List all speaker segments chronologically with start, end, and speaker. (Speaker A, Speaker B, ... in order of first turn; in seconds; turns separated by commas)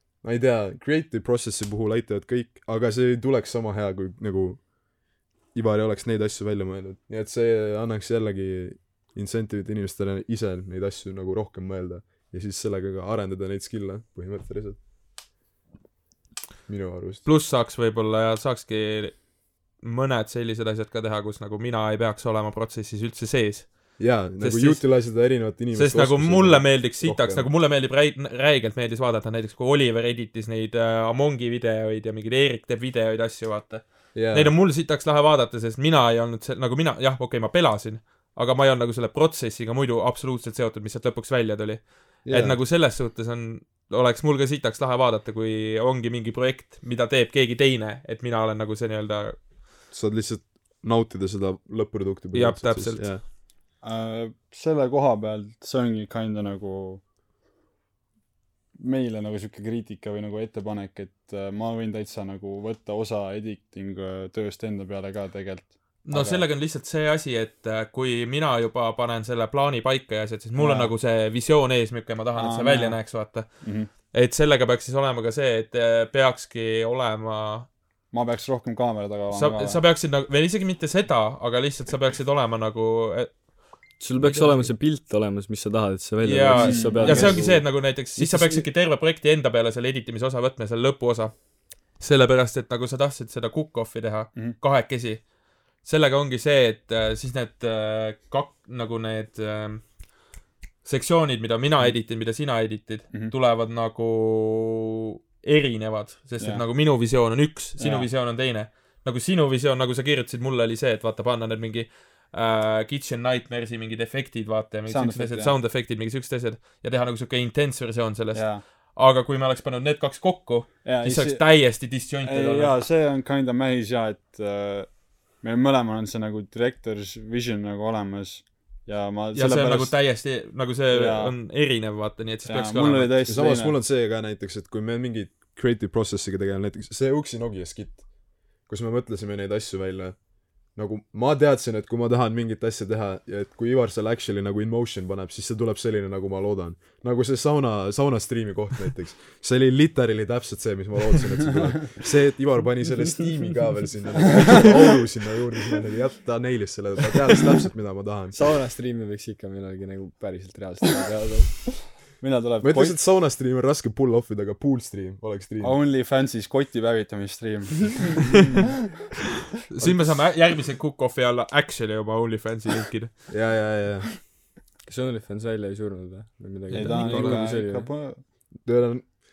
Speaker A: 0.2-14.8, Speaker A: 16.7-17.2, Speaker B: 17.2-49.4, Speaker A: 24.0-27.5, Speaker A: 34.1-34.5, Speaker A: 42.2-42.6, Speaker A: 49.9-53.2, Speaker B: 52.3-53.2, Speaker C: 53.8-57.0, Speaker C: 58.8-66.5, Speaker B: 66.0-77.7, Speaker C: 70.5-70.9, Speaker C: 72.3-73.9, Speaker C: 78.1-79.8, Speaker B: 79.3-84.7, Speaker D: 84.0-88.7, Speaker B: 86.2-100.0, Speaker C: 86.5-87.5, Speaker B: 100.8-122.8, Speaker C: 106.4-106.6, Speaker C: 107.8-108.1, Speaker C: 114.9-115.5, Speaker C: 118.3-118.6, Speaker C: 120.8-130.1, Speaker B: 129.3-133.2, Speaker C: 130.9-131.3, Speaker C: 132.4-133.7, Speaker A: 133.2-140.2, Speaker A: 140.7-158.5, Speaker D: 158.3-161.9, Speaker C: 162.2-163.0, Speaker A: 162.6-165.8, Speaker C: 165.6-168.6, Speaker B: 169.7-173.5, Speaker A: 173.3-174.2, Speaker D: 174.8-177.9, Speaker B: 176.7-177.5, Speaker C: 176.7-178.2, Speaker A: 178.6-179.1